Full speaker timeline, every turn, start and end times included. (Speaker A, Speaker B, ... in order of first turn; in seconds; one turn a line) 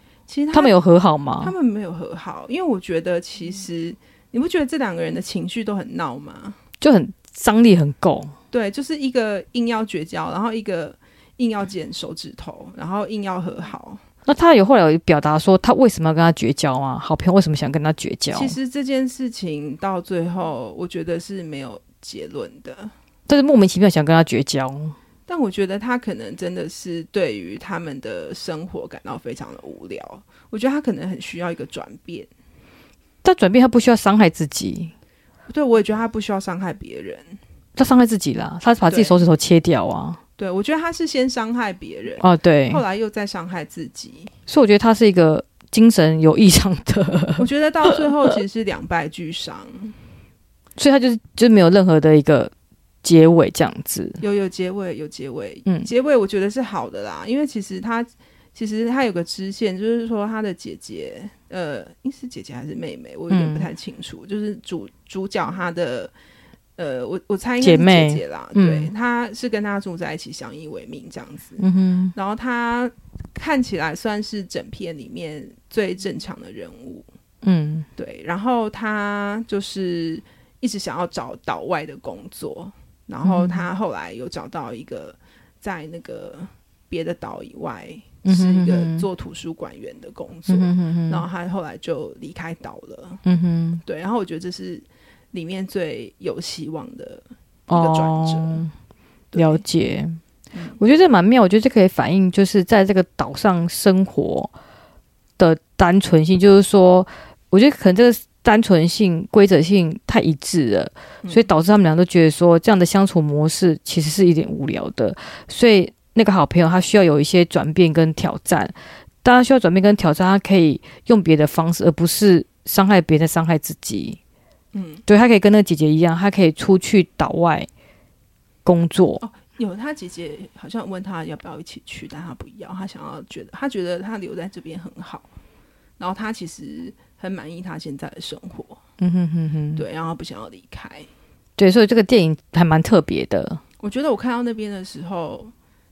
Speaker A: 0.3-0.8
Speaker B: 0.5-1.5
Speaker A: 1.4-6.6
Speaker B: 6.8-8.3
Speaker A: 8.5-14.0
Speaker B: 14.2-18.5
Speaker A: 18.3-22.9
Speaker B: 23.3-24.9
Speaker A: 25.3-32.3
Speaker B: 33.2-34.9
Speaker A: 35.5-37.4
Speaker B: 37.8-40.2
Speaker A: 38.8-39.2
Speaker A: 40.4-44.3
Speaker B: 42.2-42.8
Speaker B: 44.5-47.9
Speaker A: 47.4-49.9
Speaker B: 50.8-52.5
Speaker B: 53.0-54.2
Speaker A: 54.2-66.1
Speaker B: 63.3-63.7
Speaker A: 66.8-77.1
Speaker B: 67.6-68.9
Speaker B: 71.6-72.1
Speaker B: 77.4-77.8
Speaker A: 78.0-93.2
Speaker B: 83.2-83.6
Speaker B: 88.2-89.0
Speaker B: 90.5-91.2
Speaker B: 93.2-93.8
Speaker A: 93.8-98.7
Speaker B: 97.7-98.7
Speaker A: 99.3-99.6
Speaker B: 99.3-100.2
Speaker B: 100.8-104.5
Speaker B: 105.4-124.2
Speaker A: 124.7-125.0
Speaker B: 125.1-127.7
Speaker B: 128.6-129.2
Speaker A: 129.2-135.3
Speaker A: 136.0-138.8
Speaker B: 139.0-139.8
Speaker A: 139.8-141.1
Speaker B: 141.6-143.6
Speaker A: 143.8-145.5